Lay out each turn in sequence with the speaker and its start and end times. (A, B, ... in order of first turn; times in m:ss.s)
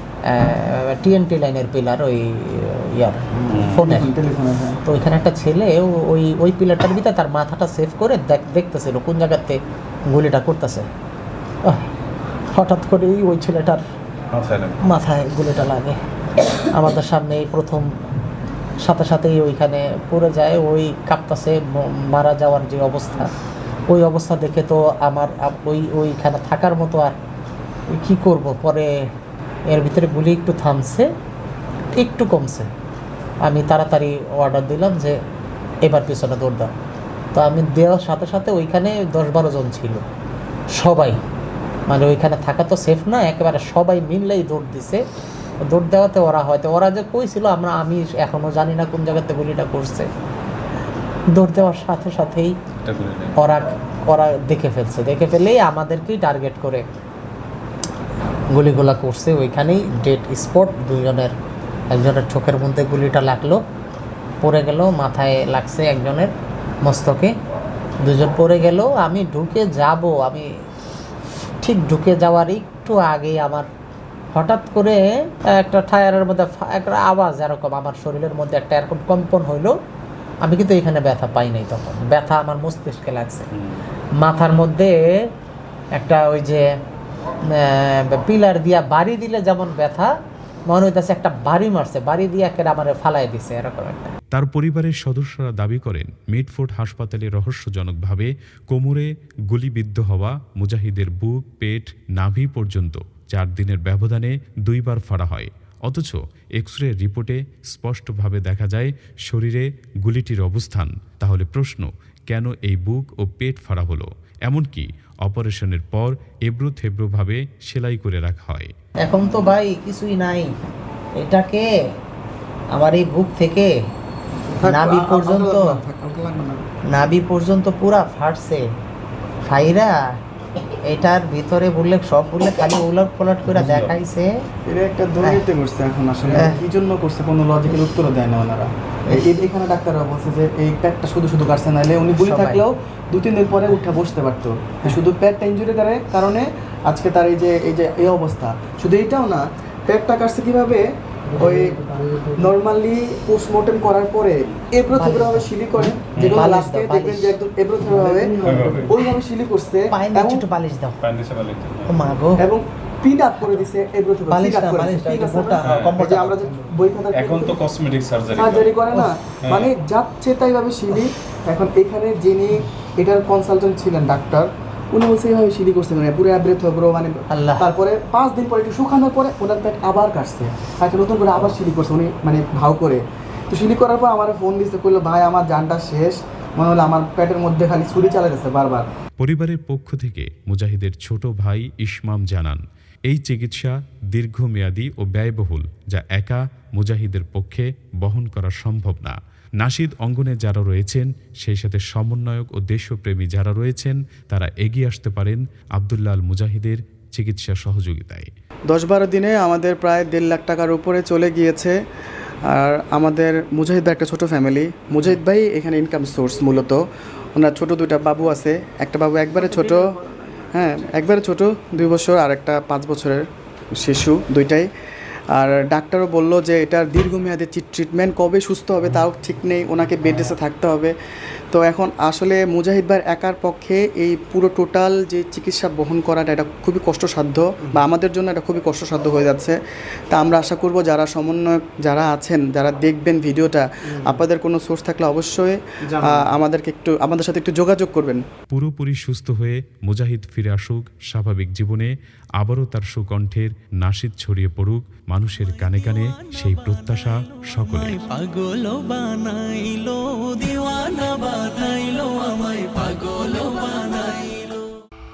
0:00.3-0:04.1 A
0:03.5-0:04.8 B
0:04.9-0:09.6 A
0:10.1-0:10.9 A
0:12.6-0:13.8 A
0:14.3-0:14.8 C
0:14.8-0:16.0 A
0:16.7-0:17.9 A
0:18.8-0:23.3 A
0:23.9-0:27.2 A
0:27.9-0:28.9 A
0:29.7-0:31.1 A
0:31.9-0:32.7 A
0:33.4-0:35.2 A
0:35.8-0:36.7 A
0:37.3-0:40.0 A
0:40.8-0:41.2 A
0:41.9-0:45.0 A
0:45.6-0:50.1 A
0:51.3-0:52.5 A
0:52.8-0:53.4 C
0:53.4-0:56.9 A
0:58.5-1:01.3 A
1:01.9-1:03.6 A
1:04.4-1:06.3 A
1:06.8-1:07.3 A
1:08.0-1:10.5 A
1:11.6-1:13.7 A
1:14.3-1:19.7 A
1:20.4-1:23.5 A
1:24.2-1:25.1 A
1:26.0-1:26.7 A
1:27.5-1:30.1 A
1:30.7-1:34.1 A
1:34.3-1:58.7 D
1:59.0-2:00.5 A
2:01.2-2:01.7 A
2:02.7-2:03.7 A
2:04.6-2:06.6 B
2:04.6-2:05.8 A
2:06.9-2:08.6 A
2:09.5-2:09.9 A
2:10.9-2:14.3 A
2:13.5-2:13.9 C
2:14.7-2:40.4 B
2:16.3-2:16.6 A
2:22.2-2:22.6 A
2:34.9-2:35.5 A
2:36.1-2:36.4 C
2:36.2-2:37.4 A
2:38.4-2:39.0 C
2:39.9-2:41.0 A
2:41.0-2:42.2 C
2:41.9-2:42.4 A
2:42.4-2:47.6 B
2:44.3-2:46.4 A
2:45.6-2:46.0 C
2:47.1-2:48.8 C
2:48.3-3:08.9 B
2:49.4-2:49.7 C
2:57.3-2:57.7 A
3:09.2-3:28.3 D
3:28.7-3:31.8 B
3:32.5-3:36.8 B
3:37.4-3:39.9 B
3:39.4-3:40.7 A
3:40.5-3:44.7 B
3:45.3-3:51.0 B
3:51.5-3:59.6 B
4:00.1-4:08.2 B
4:08.5-4:18.0 D
4:15.7-4:17.1 E
4:17.6-4:24.7 E